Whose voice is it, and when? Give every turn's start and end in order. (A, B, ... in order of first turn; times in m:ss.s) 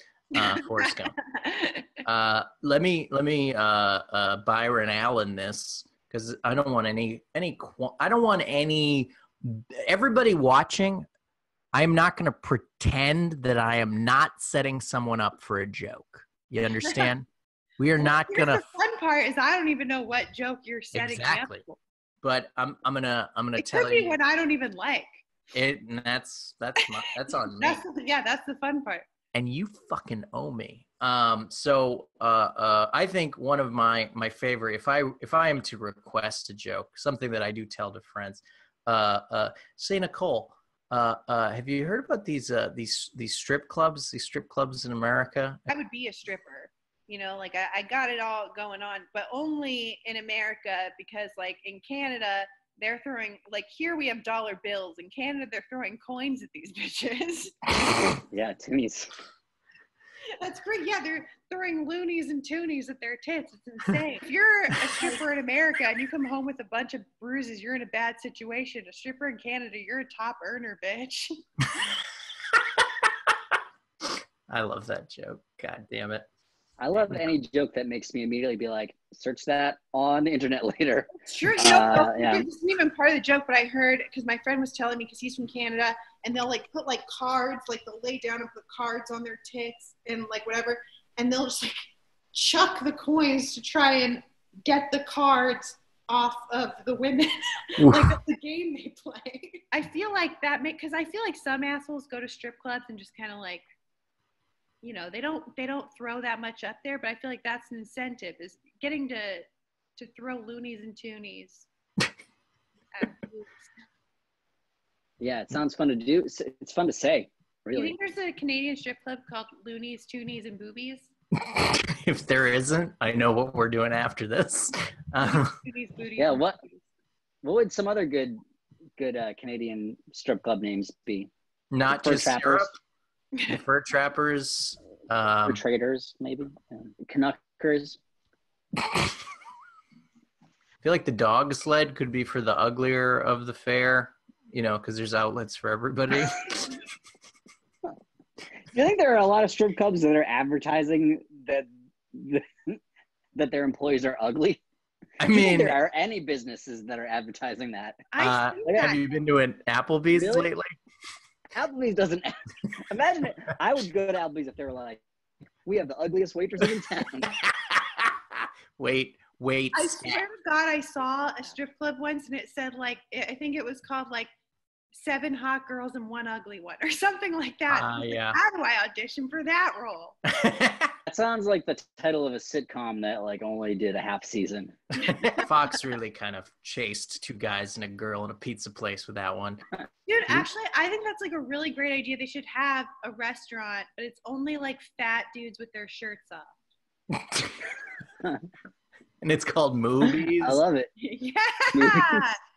0:00.3-0:01.1 A
0:00.3-0:01.9 B
0:02.0-0:11.0 A
0:11.7-0:17.2 A
0:17.8-0:18.7 A
0:18.0-0:21.8 B
0:20.9-0:21.6 A
0:22.2-0:24.2 A
0:23.6-0:25.2 B
0:25.5-0:27.8 A
0:27.5-0:29.0 B
0:29.3-0:45.6 A
0:45.7-0:57.6 B
0:58.2-0:59.1 C
1:00.4-1:11.3 B
1:14.0-1:16.3 A
1:16.8-1:22.4 C
1:17.0-1:17.3 A
1:21.2-1:43.6 B
1:37.8-1:38.1 A
1:44.8-1:49.4 B
1:50.0-1:51.7 B
1:52.9-1:53.7 B
1:55.2-1:58.0 C
1:57.7-2:01.1 B
2:01.5-2:05.5 A
2:05.2-2:06.8 B
2:06.2-2:06.6 C
2:07.4-2:08.4 C
2:09.0-2:11.3 C
2:11.7-2:12.7 A
2:11.9-2:12.7 C
2:13.5-2:15.6 A
2:15.4-2:18.0 C
2:20.8-2:26.8 A
2:28.7-2:32.8 C
2:33.3-2:34.6 C
2:35.2-2:35.8 A
2:35.3-2:38.0 C
2:38.1-2:39.0 B
2:38.2-2:40.6 A
2:40.1-2:40.5 C
2:41.5-2:45.0 C
2:45.6-2:47.3 C
2:47.5-2:50.2 A
2:49.7-2:54.3 B
2:54.9-3:00.2 B
2:57.7-2:58.4 A
3:00.4-3:00.9 A
3:01.0-3:04.8 C
3:05.0-3:09.6 A
3:05.0-3:05.4 B
3:10.1-3:16.5 B
3:19.2-3:20.6 A
3:20.4-3:20.9 C
3:21.0-3:22.4 B
3:21.7-3:22.2 C